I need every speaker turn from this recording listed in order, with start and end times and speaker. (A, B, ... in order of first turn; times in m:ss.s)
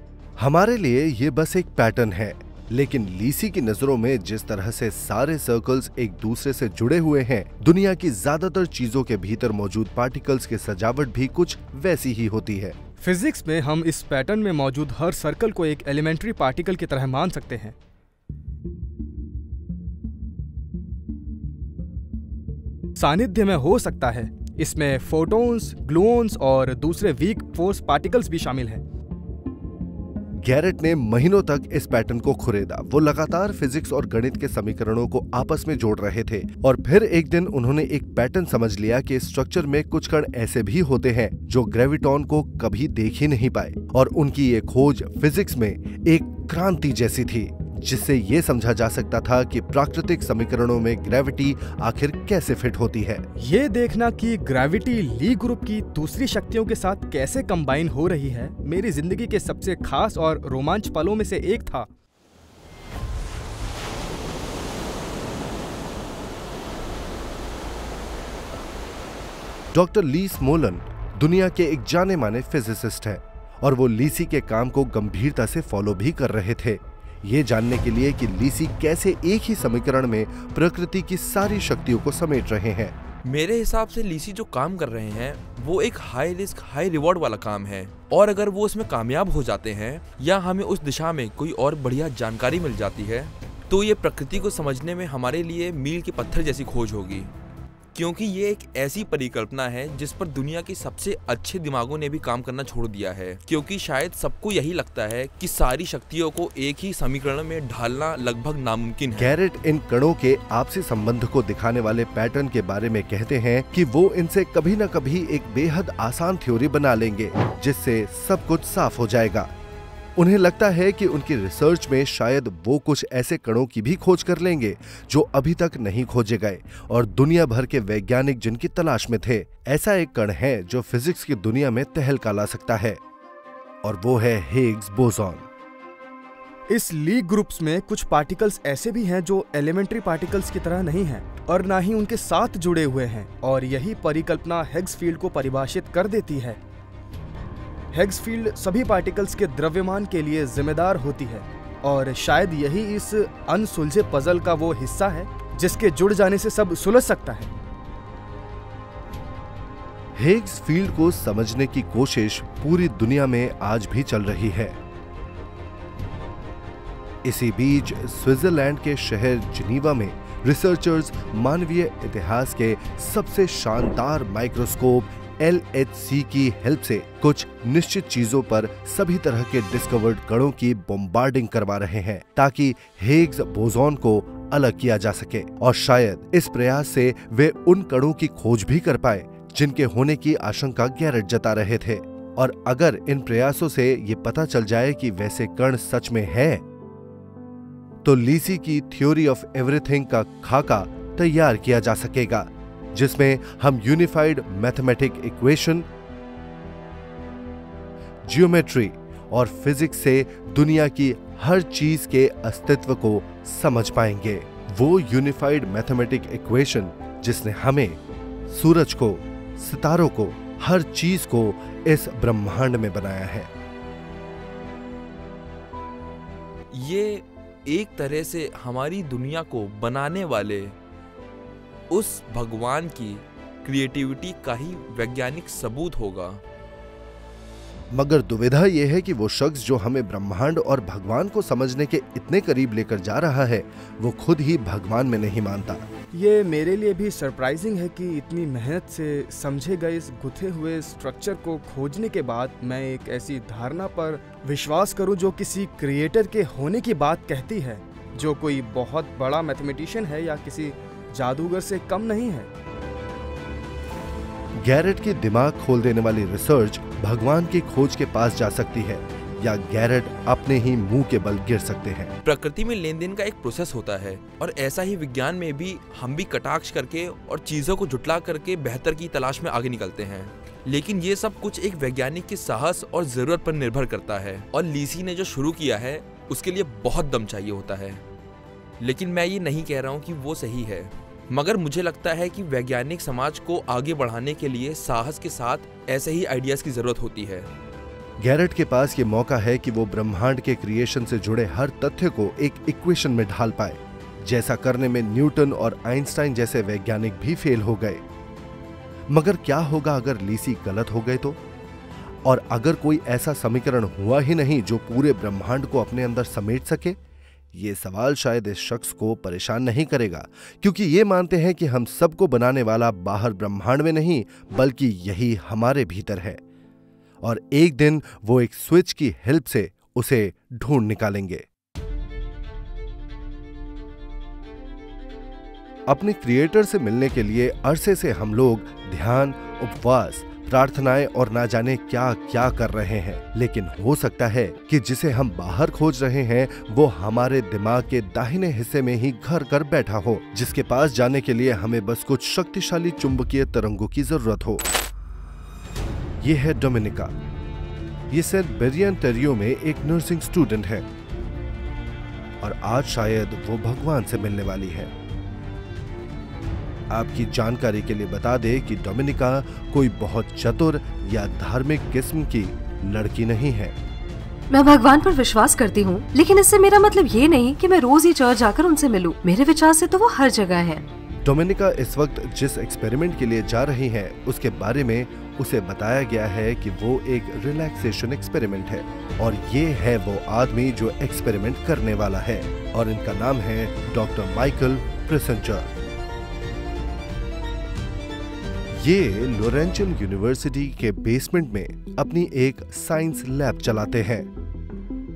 0:00.4-0:12.8 A
0:13.0-0:17.8 B
0:23.0-0:28.8 B
0:30.4-0:53.2 A
0:53.4-1:01.9 B
1:09.7-1:22.9 A
1:23.2-1:37.3 C
1:37.9-1:49.4 C
1:49.2-1:59.5 A
2:00.2-2:13.0 A
2:13.8-2:15.5 A
2:16.7-2:26.6 B
2:27.9-2:37.5 B
2:40.2-2:44.8 A
2:47.2-3:16.6 A
3:18.0-3:25.8 A
3:28.2-3:43.5 A
3:46.7-3:50.7 C
3:51.9-3:56.4 C
3:57.9-4:05.8 A
4:06.1-4:22.5 B
4:24.6-4:32.2 A
4:32.2-4:48.0 C
4:48.8-4:57.5 C
4:58.2-5:08.0 A
5:09.1-5:11.4 A
5:12.2-5:17.0 A
5:17.5-5:26.4 A
5:27.2-5:31.4 A
5:35.9-5:54.7 A
5:56.2-5:57.1 A
5:58.1-6:00.9 A
6:02.4-6:04.9 A
6:06.9-6:13.8 A
6:14.5-6:20.8 D
6:21.2-6:35.7 A
6:38.8-6:44.3 A